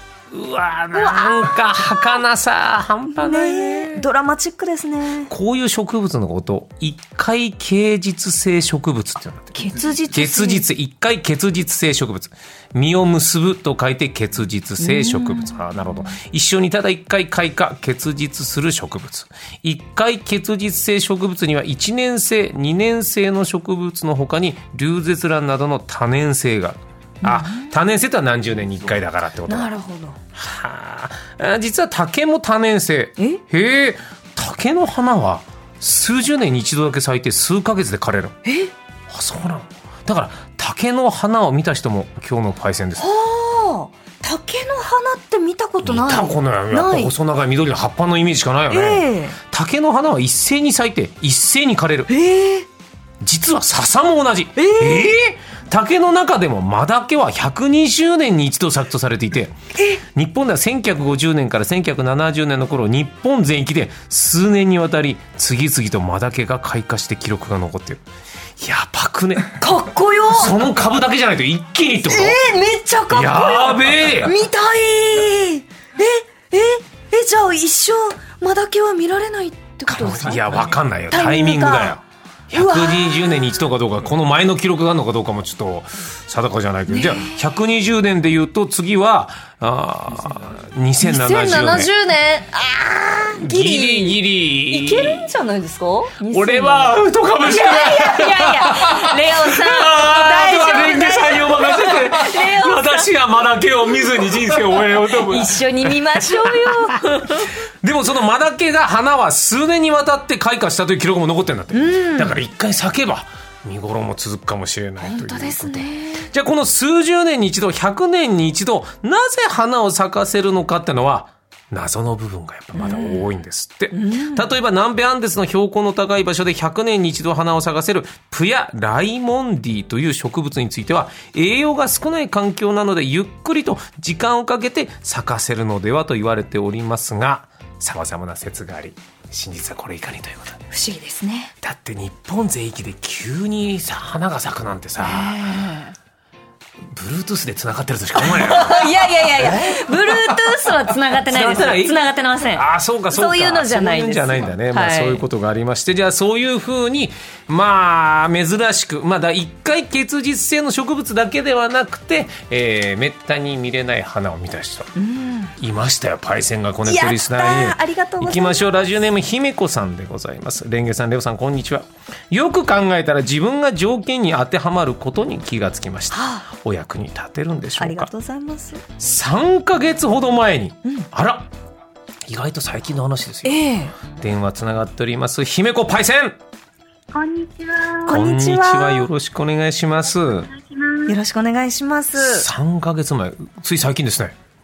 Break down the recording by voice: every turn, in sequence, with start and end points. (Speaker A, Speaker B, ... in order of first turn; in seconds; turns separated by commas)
Speaker A: 0.3-4.1, Speaker B: 0.9-2.1, Speaker B: 3.1-5.3, Speaker A: 5.3-29.7, Speaker B: 9.5-10.7, Speaker B: 14.8-16.1, Speaker B: 27.2-27.8, Speaker B: 29.5-30.2, Speaker A: 30.3-38.4, Speaker B: 38.5-38.7, Speaker A: 39.1-43.1, Speaker B: 43.0-47.1, Speaker A: 45.8-52.1, Speaker B: 48.7-49.4, Speaker B: 52.1-52.7, Speaker A: 53.2-68.0, Speaker B: 54.6-55.1, Speaker B: 59.8-60.0, Speaker A: 68.6-69.6, Speaker B: 69.6-70.6, Speaker A: 70.3-72.5, Speaker B: 72.1-82.0, Speaker A: 73.1-74.4, Speaker A: 79.9-91.9, Speaker B: 82.5-83.5, Speaker B: 86.9-87.4, Speaker B: 91.0-103.1, Speaker A: 93.4-95.3, Speaker A: 96.3-107.0, Speaker B: 105.2-107.5, Speaker A: 107.8-140.6, Speaker B: 111.7-112.4, Speaker B: 115.0-116.3, Speaker B: 122.8-123.2, Speaker B: 123.9-124.5, Speaker B: 140.7-141.5, Speaker A: 141.6-145.4, Speaker B: 145.0-145.9, Speaker A: 146.9-164.9, Speaker B: 148.2-155.2, Speaker B: 165.0-165.5, Speaker A: 165.6-178.1, Speaker B: 166.8-169.1, Speaker B: 176.1-176.4, Speaker B: 177.8-178.8, Speaker A: 179.0-181.5, Speaker A: 182.3-186.4, Speaker B: 183.4-183.9, Speaker C: 187.1-188.2, Speaker B: 188.1-189.1, Speaker A: 188.1-190.5, Speaker C: 190.1-191.2, Speaker B: 191.1-192.5, Speaker A: 192.2-194.4